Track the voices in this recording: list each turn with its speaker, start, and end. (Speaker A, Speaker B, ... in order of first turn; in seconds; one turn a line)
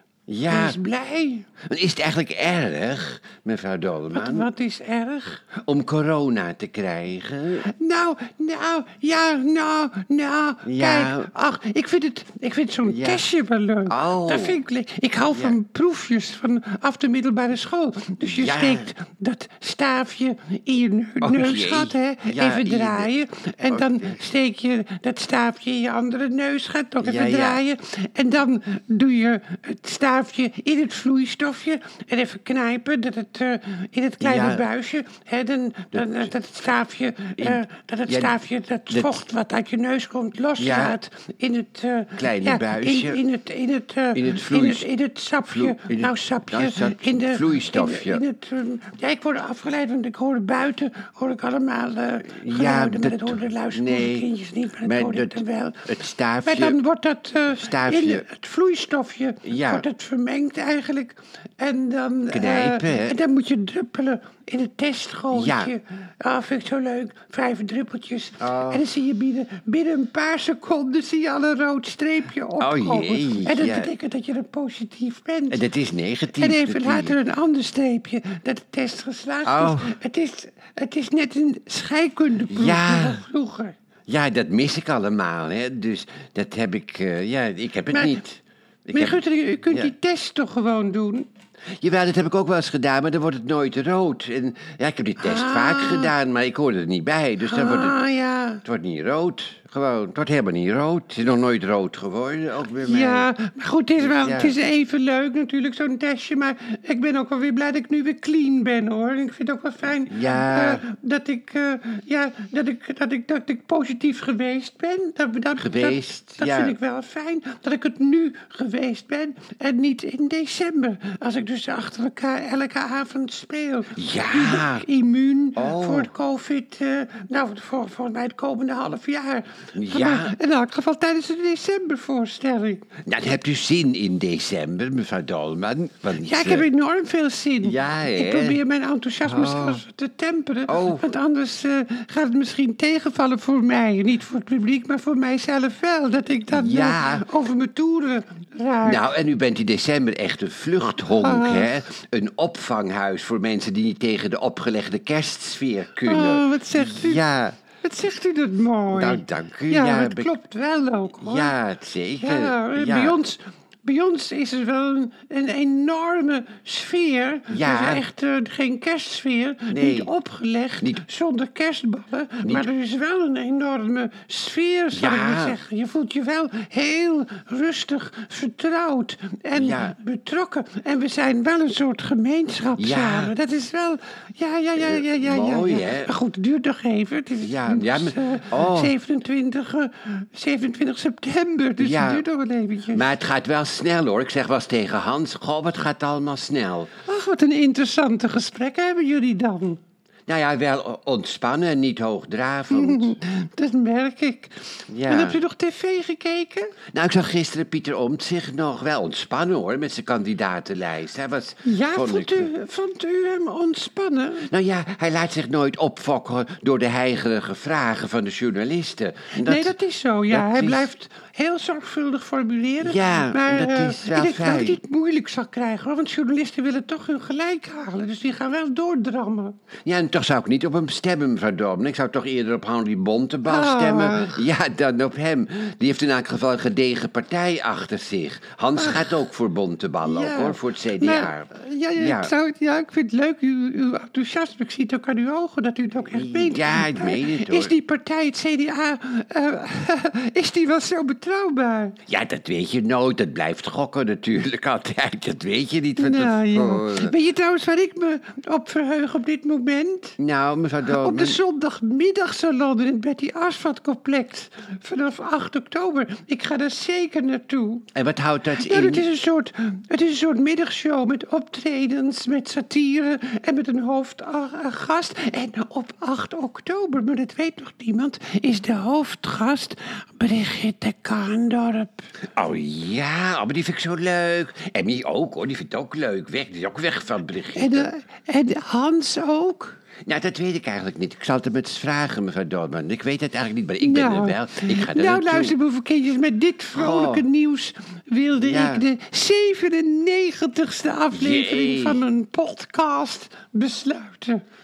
Speaker A: 0.3-0.8
Speaker B: 0.5-1.5
Speaker A: 1.6-4.5
Speaker B: 4.1-5.4
Speaker A: 5.6-7.7
Speaker B: 7.6-75.6
Speaker A: 10.6-11.3
Speaker A: 12.8-13.2
Speaker A: 13.9-14.6
Speaker A: 15.3-15.6
Speaker A: 18.3-18.9
Speaker A: 21.2-23.1
Speaker A: 23.7-24.2
Speaker A: 27.0-27.6
Speaker A: 34.2-34.6
Speaker A: 35.9-36.2
Speaker A: 37.4-38.4
Speaker A: 40.6-41.0
Speaker A: 42.1-43.2
Speaker A: 44.1-44.9
Speaker A: 45.5-48.2
Speaker A: 52.3-54.3
Speaker A: 54.8-56.8
Speaker A: 57.5-58.2
Speaker A: 59.5-59.8
Speaker A: 62.3-63.1
Speaker A: 65.3-65.7
Speaker A: 68.4-68.8
Speaker A: 72.6-73.9
Speaker A: 75.5-77.2
Speaker B: 76.3-83.7
Speaker A: 79.4-79.9
Speaker A: 82.5-83.2
Speaker A: 84.1-89.9
Speaker B: 87.9-88.2
Speaker B: 88.9-91.3
Speaker A: 91.8-98.0
Speaker B: 95.2-96.1
Speaker B: 97.4-98.6
Speaker A: 98.6-103.3
Speaker B: 102.8-132.8
Speaker A: 104.0-104.5
Speaker A: 110.1-110.8
Speaker A: 115.5-116.8
Speaker A: 124.0-124.8
Speaker A: 125.5-126.1
Speaker A: 129.7-130.3
Speaker A: 133.1-136.7
Speaker B: 136.2-149.0
Speaker A: 137.6-138.6
Speaker A: 139.2-139.8
Speaker A: 140.7-141.1
Speaker A: 146.5-147.2
Speaker A: 148.8-157.6
Speaker B: 151.1-151.7
Speaker B: 156.0-157.2
Speaker B: 157.8-161.5
Speaker A: 158.9-160.3
Speaker A: 161.2-163.2
Speaker B: 162.2-193.1
Speaker A: 167.5-168.0
Speaker A: 169.7-170.1
Speaker A: 172.4-172.7
Speaker A: 174.9-175.6
Speaker A: 179.5-179.9
Speaker A: 182.8-183.3
Speaker A: 184.8-186.1
Speaker A: 187.4-188.9
Speaker A: 191.8-192.2
Speaker A: 192.9-196.9
Speaker B: 197.0-199.8
Speaker A: 200.3-203.2
Speaker B: 202.7-206.7
Speaker A: 204.9-205.4
Speaker A: 206.9-212.5
Speaker B: 211.6-214.5
Speaker A: 214.5-219.7
Speaker B: 219.3-229.5
Speaker A: 220.3-220.9
Speaker A: 222.8-224.8
Speaker A: 229.8-242.3
Speaker B: 233.4-234.4
Speaker B: 238.8-239.2
Speaker B: 240.0-252.0
Speaker A: 246.1-247.7
Speaker A: 252.1-257.1
Speaker B: 256.0-260.2
Speaker A: 260.2-261.4
Speaker B: 260.9-267.9
Speaker A: 267.9-269.1
Speaker B: 268.5-282.1
Speaker A: 282.4-287.9
Speaker B: 287.6-289.8
Speaker A: 290.1-295.5
Speaker B: 293.8-304.4
Speaker A: 296.7-297.2
Speaker A: 298.4-298.8
Speaker A: 301.1-302.0